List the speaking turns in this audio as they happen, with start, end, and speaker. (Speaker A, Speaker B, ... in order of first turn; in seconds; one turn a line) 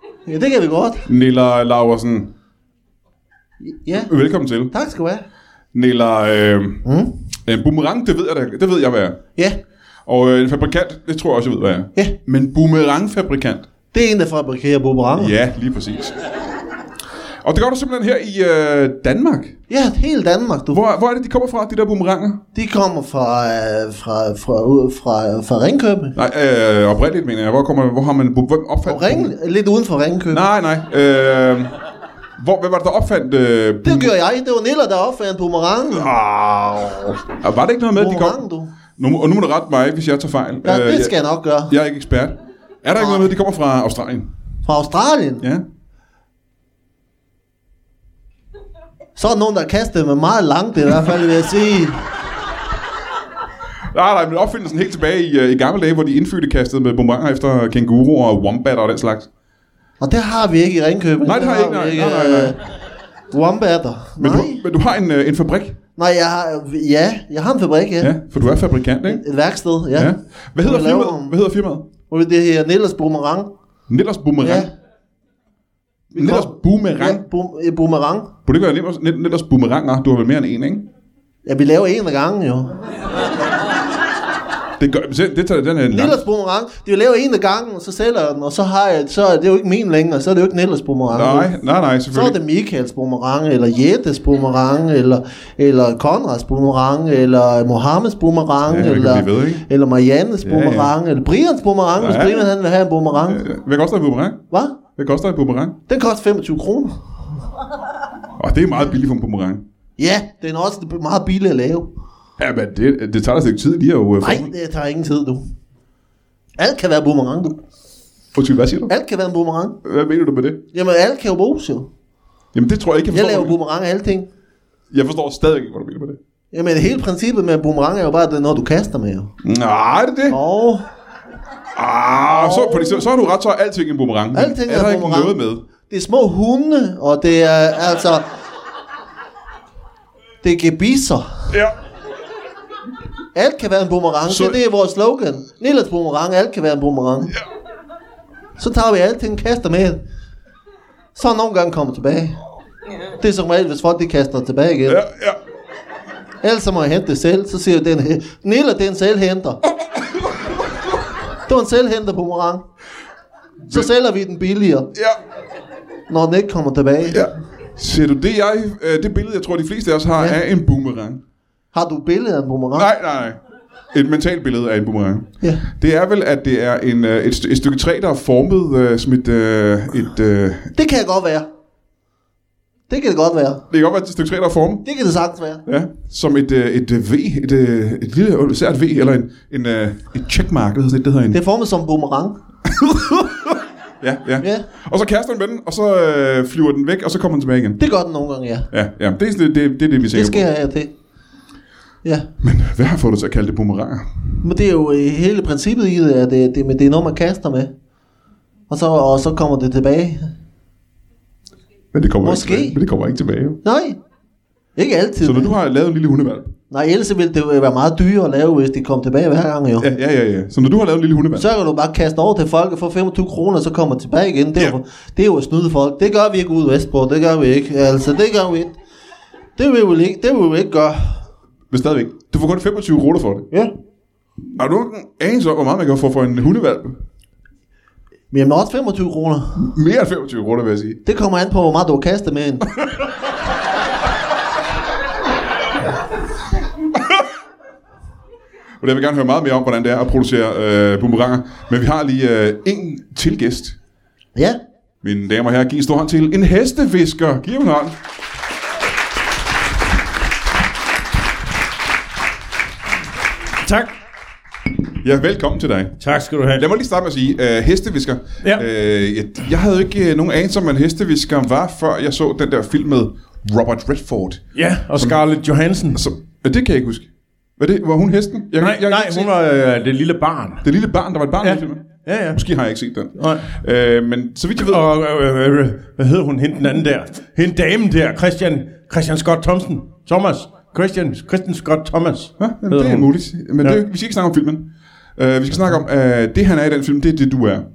Speaker A: 0.2-1.1
Speaker B: 1.1-2.3
Speaker A: 3.6-4.1
Speaker B: 4.0-4.7
Speaker A: 4.7-5.2
Speaker B: 5.7-6.8
Speaker A: 6.8-7.1
Speaker B: 7.4-9.2
Speaker B: 10.1-13.6
Speaker A: 13.9-15.3
Speaker B: 15.1-16.2
Speaker B: 17.4-19.6
Speaker A: 19.7-20.8
Speaker B: 20.7-22.4
Speaker A: 22.5-26.1
Speaker B: 26.1-29.3
Speaker A: 28.8-30.4
Speaker B: 30.3-31.7
Speaker B: 32.4-34.1
Speaker A: 33.8-36.1
Speaker B: 36.0-38.4
Speaker A: 38.0-38.7
Speaker B: 39.0-41.1
Speaker A: 40.6-41.7
Speaker B: 41.7-44.3
Speaker A: 43.0-43.3
Speaker A: 44.6-45.4
Speaker A: 49.1-52.1
Speaker B: 53.9-59.3
Speaker A: 60.0-62.6
Speaker B: 61.2-62.5
Speaker A: 63.3-64.6
Speaker B: 64.2-65.8
Speaker A: 66.0-71.3
Speaker B: 68.0-69.2
Speaker B: 69.9-71.8
Speaker A: 72.1-73.5
Speaker B: 73.9-74.7
Speaker A: 74.4-74.7
Speaker A: 76.1-78.3
Speaker B: 76.1-77.2
Speaker B: 78.5-80.8
Speaker A: 81.4-82.7
Speaker B: 84.8-86.2
Speaker A: 85.9-91.5
Speaker B: 91.1-92.3
Speaker A: 92.1-103.4
Speaker B: 98.7-99.6
Speaker B: 100.4-100.9
Speaker B: 102.0-102.5
Speaker B: 103.3-104.4
Speaker A: 104.5-104.8
Speaker B: 105.0-105.8
Speaker A: 105.9-107.0
Speaker B: 108.4-109.6
Speaker A: 110.0-111.9
Speaker B: 112.4-114.5
Speaker A: 114.2-115.5
Speaker A: 116.6-117.6
Speaker B: 118.3-118.9
Speaker A: 118.9-119.8
Speaker B: 119.8-120.6
Speaker A: 120.7-121.9
Speaker B: 122.5-123.5
Speaker A: 123.1-124.3
Speaker B: 124.9-126.2
Speaker A: 126.5-129.3
Speaker B: 129.4-130.4
Speaker A: 130.3-130.9
Speaker B: 131.7-135.6
Speaker A: 132.3-133.1
Speaker A: 134.3-138.2
Speaker A: 140.4-141.5
Speaker A: 143.3-147.3
Speaker B: 144.3-144.6
Speaker A: 148.6-150.0
Speaker A: 151.1-152.4
Speaker A: 153.2-155.0
Speaker B: 154.9-155.4
Speaker A: 156.4-159.6
Speaker A: 161.4-162.6
Speaker A: 163.7-164.9
Speaker A: 166.1-167.2
Speaker B: 167.1-171.2
Speaker A: 171.7-172.9
Speaker B: 172.7-173.4
Speaker B: 173.9-180.7
Speaker A: 180.7-181.5
Speaker A: 182.9-183.6
Speaker B: 183.7-184.8
Speaker A: 184.8-185.6
Speaker B: 185.7-191.4
Speaker A: 191.3-192.3
Speaker B: 192.8-193.3
Speaker B: 194.0-197.8
Speaker A: 197.8-198.7
Speaker B: 198.7-200.5
Speaker A: 200.1-200.9
Speaker A: 202.0-202.3
Speaker B: 202.4-204.4
Speaker A: 204.4-207.7
Speaker A: 208.7-210.3
Speaker B: 211.9-213.6
Speaker A: 212.2-212.7
Speaker A: 213.6-214.0
Speaker A: 214.8-215.5
Speaker B: 215.2-216.5
Speaker A: 216.7-219.9
Speaker B: 219.8-221.5
Speaker A: 221.3-228.7
Speaker A: 229.6-231.3
Speaker B: 231.7-233.5
Speaker B: 234.5-237.0
Speaker A: 238.3-239.7
Speaker B: 239.6-241.0
Speaker A: 241.0-242.6
Speaker B: 248.8-253.8
Speaker B: 255.0-257.9
Speaker C: 263.6-263.9
Speaker B: 265.0-275.2
Speaker C: 266.0-266.6
Speaker C: 274.5-276.0
Speaker B: 275.9-279.3
Speaker C: 278.6-280.7
Speaker B: 280.6-284.8
Speaker C: 281.4-282.4
Speaker C: 283.1-283.5
Speaker C: 284.6-293.1
Speaker B: 292.4-297.6